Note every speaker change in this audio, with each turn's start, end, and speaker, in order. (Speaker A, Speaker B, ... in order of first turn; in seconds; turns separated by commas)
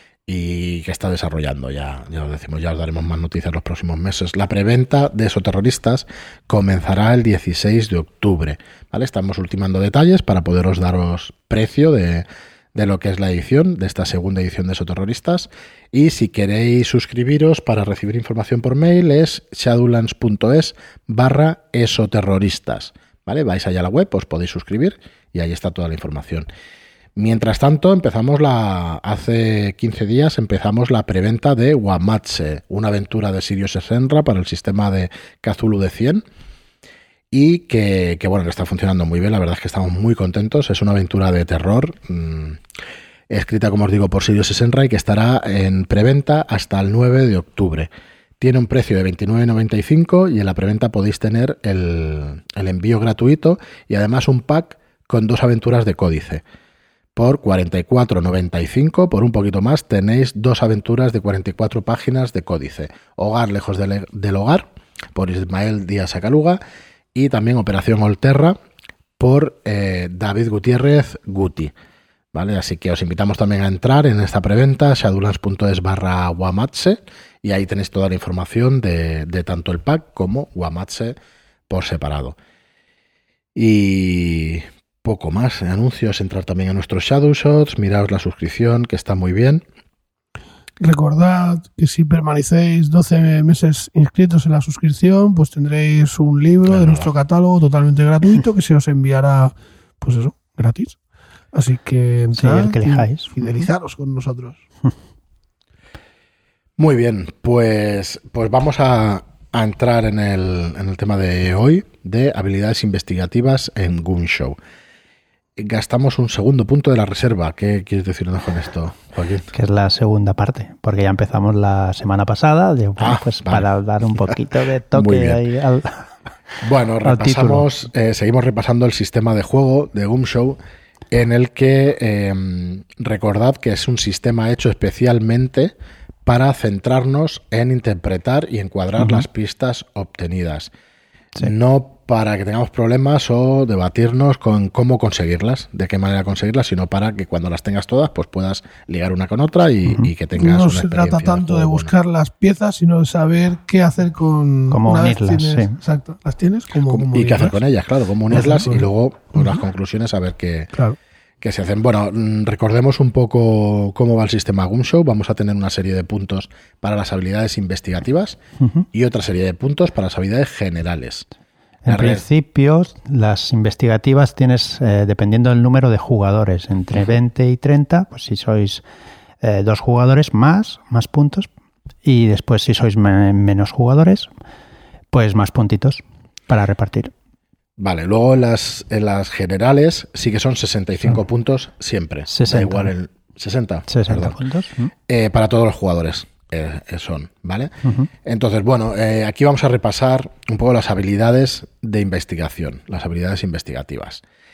Speaker A: 0.3-26.5, Speaker A: 27.1-36.2, Speaker A: 37.3-42.6, Speaker A: 43.3-56.4, Speaker A: 57.1-66.6, Speaker A: 67.1-68.6, Speaker A: 69.2-71.7, Speaker A: 72.3-81.2, Speaker A: 81.7-82.3, Speaker A: 83.5-89.6, Speaker B: 90.8-101.0, Speaker A: 96.7-97.1, Speaker B: 101.5-104.6, Speaker C: 102.3-103.7, Speaker A: 106.8-114.5, Speaker A: 115.6-119.5, Speaker C: 119.5-126.1, Speaker A: 123.0-123.7, Speaker A: 124.9-125.4, Speaker A: 126.6-130.6, Speaker C: 127.0-127.7, Speaker A: 131.1-135.7, Speaker A: 136.2-140.7, Speaker C: 139.0-139.2, Speaker A: 141.4-151.9, Speaker B: 150.3-157.6, Speaker C: 154.7-155.8, Speaker A: 156.9-160.7, Speaker B: 158.3-158.8, Speaker A: 161.4-168.4, Speaker C: 168.6-168.8, Speaker A: 168.9-171.2, Speaker C: 171.8-178.8, Speaker A: 171.9-172.2, Speaker C: 179.4-181.5, Speaker C: 182.0-184.3, Speaker C: 185.1-187.1, Speaker A: 187.8-194.4, Speaker C: 192.3-192.9, Speaker C: 193.9-194.9, Speaker A: 195.1-197.7, Speaker C: 197.8-198.1, Speaker A: 198.2-204.2